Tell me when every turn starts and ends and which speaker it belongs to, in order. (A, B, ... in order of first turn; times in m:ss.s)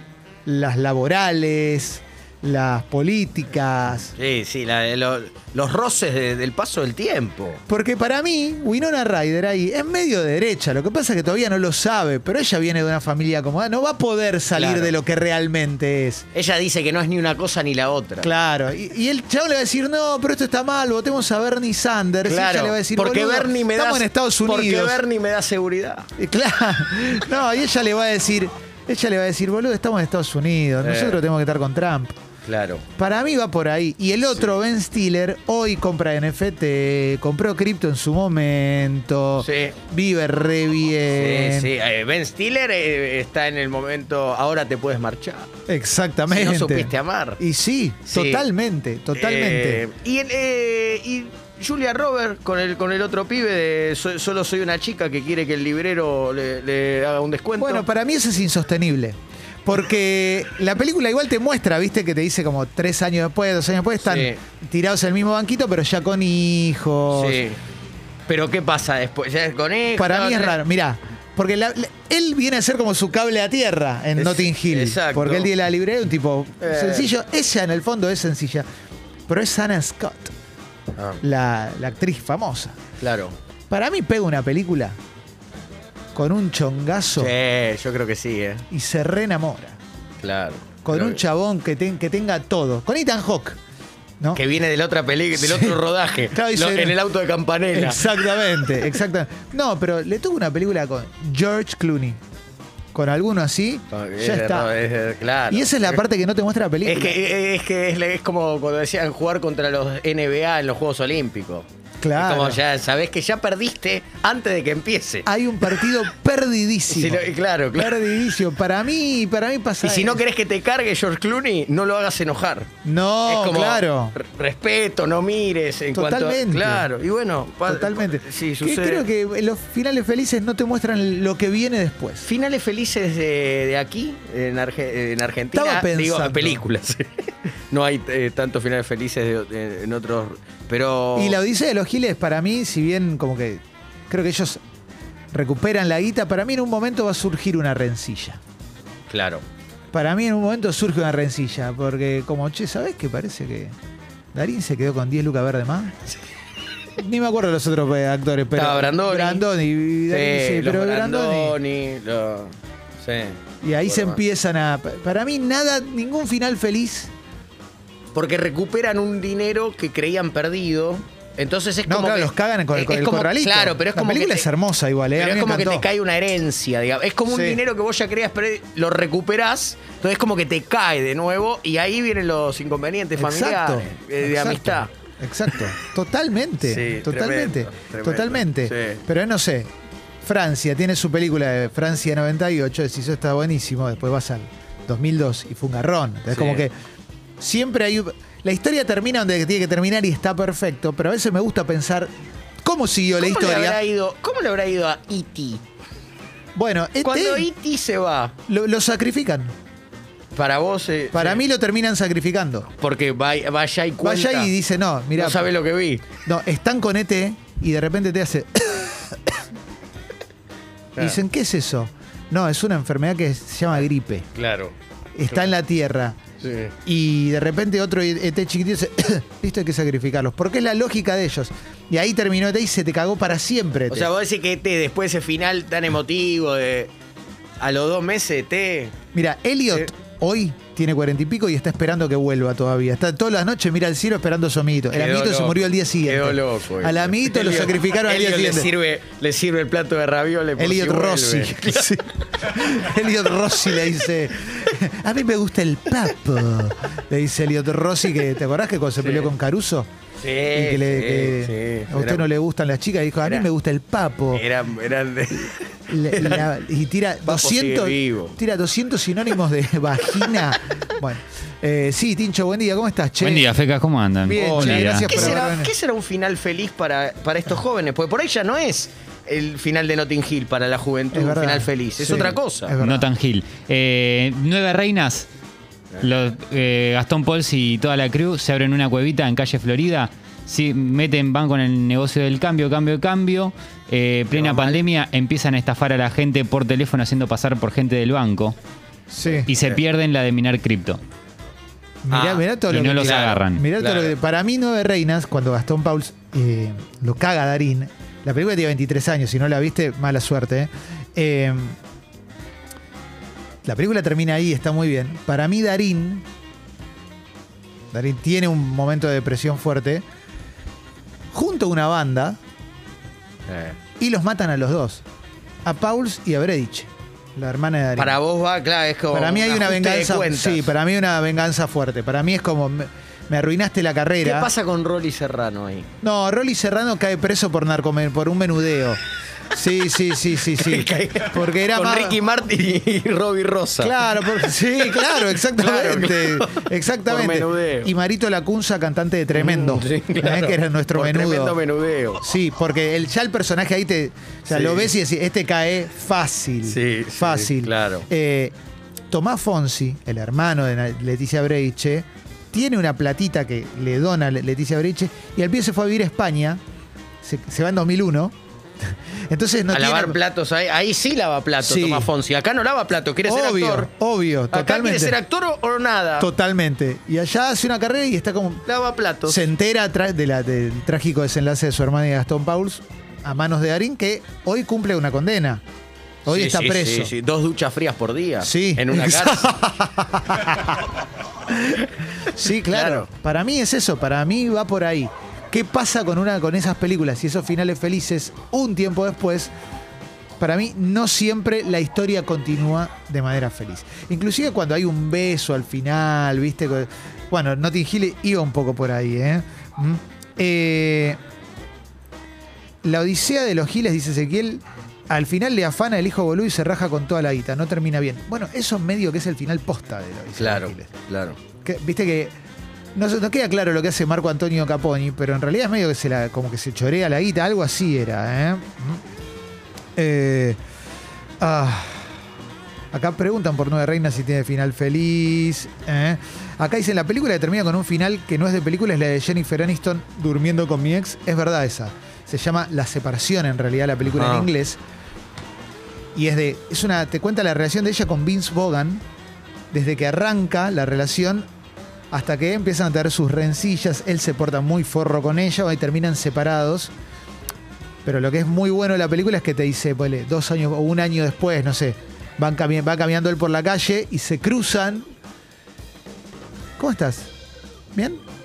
0:00.4-0:04.1 A
0:04.1-0:07.6 B
0:07.7-0:16.2 A
0:14.5-0:14.9 B
0:16.3-0:18.3 B
0:18.2-0:25.0 A
0:22.2-0:26.1 B
0:26.2-0:32.1 A
0:30.8-0:31.2 B
0:32.4-0:32.8 B
0:33.0-0:41.7 A
0:39.4-0:39.8 B
0:41.1-0:45.5 B
0:45.7-0:49.8 A
0:46.3-0:47.4 B
0:48.0-0:48.4 B
0:49.1-0:57.8 B
0:57.6-1:07.4 A
1:04.0-1:04.4 B
1:07.1-1:07.6 B
1:08.3-1:10.6 B
1:10.0-1:18.6 A
1:14.2-1:15.5 B
1:16.6-1:17.1 B
1:19.3-1:20.3 A
1:21.0-1:21.2 B
1:21.2-1:22.8 A
1:23.0-1:23.3 B
1:23.7-1:25.0 A
1:26.1-1:27.3 A
1:27.2-1:28.6 B
1:28.7-1:29.8 A
1:30.2-1:31.2 B
1:30.8-1:33.6 A
1:34.3-1:38.4 B
1:35.3-1:35.8 A
1:36.3-1:37.0 A
1:37.7-1:42.2 A
1:42.9-1:44.7 A
1:43.9-1:46.0 B
1:45.5-1:47.2 A
1:46.8-1:55.8 B
1:52.0-1:52.6 A
1:55.2-2:00.2 A
1:56.9-1:58.1 B
1:59.8-2:02.7 B
2:02.8-2:04.2 A
2:03.2-2:09.1 B
2:05.9-2:06.9 A
2:07.6-2:12.2 A
2:12.2-2:21.4 B
2:15.5-2:16.6 A
2:21.1-2:24.6 A
2:25.3-2:28.4 A
2:29.1-2:29.4 B
2:29.9-2:33.7 A
2:34.3-2:36.0 A
2:37.0-2:41.6 A
2:38.5-2:39.4 B
2:40.1-2:44.2 B
2:43.6-2:47.1 A
2:48.1-2:54.5 B
2:51.8-2:55.9 A
2:55.1-3:04.9 B
2:57.3-2:57.6 A
3:03.2-3:09.7 A
3:06.6-3:09.0 B
3:10.2-3:16.7 A
3:16.3-3:16.6 B
3:17.4-3:22.1 A
3:22.6-3:23.8 A
3:23.2-3:25.6 B
3:26.5-3:27.5 A
3:27.0-3:28.3 B
3:28.5-3:29.5 A
3:30.3-3:31.4 B
3:31.1-3:32.7 A
3:32.7-3:34.5 B
3:34.0-3:35.5 A
3:35.1-3:36.1 B
3:36.2-3:39.4 A
3:41.0-3:44.3 A
3:44.3-3:44.7 B
3:45.1-3:46.2 A
3:46.4-3:46.7 B
3:46.8-3:54.1 A
3:53.9-3:56.9 B
3:57.6-3:59.0 B
3:59.1-4:08.7 A
4:04.9-4:11.9 B
4:10.6-4:19.9 A
4:19.0-4:19.3 B
4:20.2-4:22.3 B
4:20.5-4:24.4 A
4:24.3-4:26.5 B
4:25.9-4:33.5 A
4:27.2-4:28.4 B
4:33.2-4:35.4 C
4:34.2-4:35.7 A
4:34.3-4:42.7 B
4:41.1-4:43.1 A
4:42.8-4:45.3 C
4:46.0-4:58.5 C
4:54.3-4:54.8 B
4:59.1-4:59.5 A
4:59.4-5:01.0 C
5:02.0-5:11.8 A
5:02.1-5:04.1 B
5:02.7-5:03.6 C
5:13.6-5:16.2 A
5:17.9-5:20.0 A
5:21.3-5:22.4 A
5:23.5-5:23.8 B
5:24.0-5:25.0 A
5:25.6-5:28.2 A
5:28.0-5:30.7 B
5:29.1-5:34.5 A
5:34.2-5:35.9 B
5:36.0-5:39.0 A
5:39.5-5:42.2 A
5:40.4-5:47.9 B
5:43.8-5:51.6 A
5:49.3-5:52.2 B
5:52.2-5:58.5 A
5:54.5-5:54.9 B
5:56.6-5:58.1 B
5:59.1-6:06.6 A
6:07.2-6:10.2 A
6:09.7-6:13.9 B
6:11.6-6:12.1 A
6:13.2-6:15.2 A
6:14.5-6:16.3 B
6:16.2-6:18.6 A
6:18.6-6:19.4 B
6:19.3-6:25.6 A
6:26.2-6:27.1 A
6:26.2-6:29.5 B
6:28.4-6:30.9 A
6:31.7-6:39.5 A
6:32.4-6:33.1 B
6:40.4-6:51.2 A
6:52.8-7:00.9 A
7:00.4-7:01.4 B
7:01.6-7:02.3 A
7:02.9-7:09.0 A
7:10.0-7:10.6 A
7:11.4-7:12.1 A
7:12.9-7:24.8 A
7:24.0-7:24.5 B
7:26.1-7:29.0 A
7:29.7-7:31.5 A
7:32.1-7:36.9 A
7:38.0-7:45.1 A
7:46.8-7:47.3 A
7:47.9-7:48.2 A